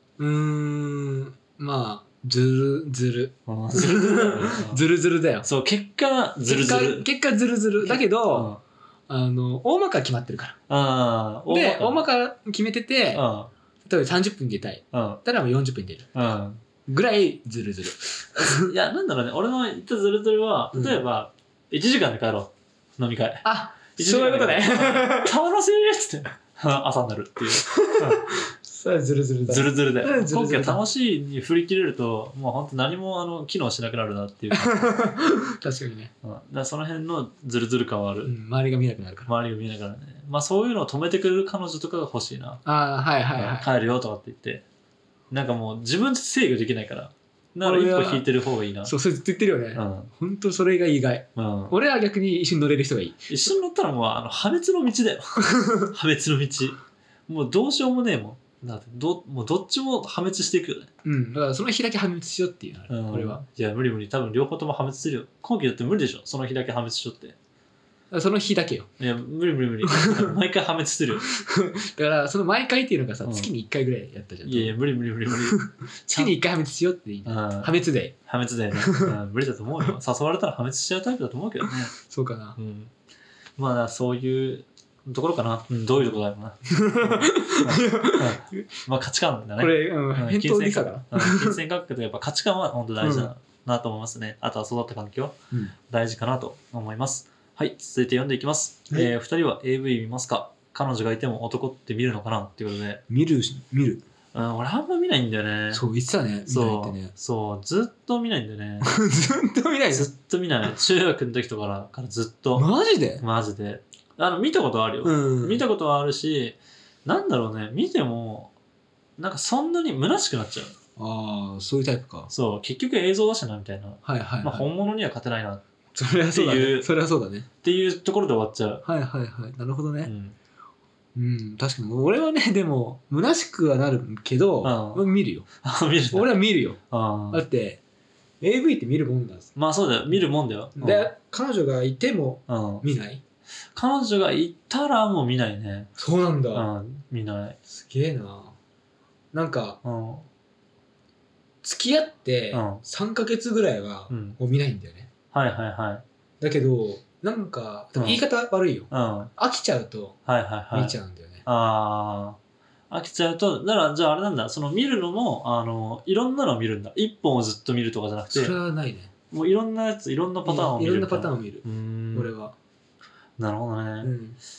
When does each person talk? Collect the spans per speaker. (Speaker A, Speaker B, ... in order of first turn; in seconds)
Speaker A: 0.2-5.5, 6.5-8.5, 9.1-10.6, 11.5-13.2, 13.8-16.1, 16.9-18.7, 20.7-21.0, 23.4-25.3, 27.8-30.8, 34.6-36.1, 38.2-39.3, 42.6-43.7, 47.6-48.3, 48.8-53.3, 61.0-63.4, 68.1-68.9, 69.8-70.3, 71.2-74.8, 75.4-78.1, 78.7-79.1, 81.7-82.6, 86.7-88.6, 89.6-91.6, 93.0-93.3, 103.1-104.0, 105.7-107.1, 108.8-110.1, 112.5-113.2, 115.0-115.6, 121.0-122.3, 124.0-124.7, 125.9-127.5, 128.8-130.1, 131.1-135.5, 136.1-136.8, 137.3-137.8, 138.4-139.5, 140.8-143.2, 146.0-146.7, 147.7-148.5, 149.3-149.8, 151.6-155.1, 156.4-160.2, 160.7-161.4, 168.3-169.1, 170.4-172.5, 174.0-174.4
Speaker B: 3.5-4.8, 5.4-7.1, 7.8-8.6, 10.7-12.0, 13.1-13.5, 14.9-15.2, 16.1-16.6, 18.4-23.4, 24.0-28.3, 29.5-34.9, 36.2-38.3, 39.2-42.6, 43.3-44.6, 45.3-48.9, 49.7-50.1, 51.4-51.8, 53.3-60.9, 62.9-67.3, 69.0-71.2, 73.2-73.5, 74.4-76.4, 77.2-77.7, 78.2-81.9, 82.5-82.9, 83.6-95.4, 95.9-103.0, 104.3-105.8, 106.5-108.9, 109.9-112.7, 113.2-118.5, 119.2-120.7, 122.3-125.6, 126.3-126.9, 127.6-128.8, 130.0-130.3, 134.6-135.1, 135.6-136.4, 136.9-137.4, 139.6-141.1, 142.5-142.8, 143.7-145.9, 146.5-147.6, 149.8-150.3, 152.5-152.8, 154.1-154.4, 155.3-156.0, 157.9-158.2, 158.9-159.3, 160.2-162.4, 162.9-168.6, 169.3-172.3, 173.4-174.1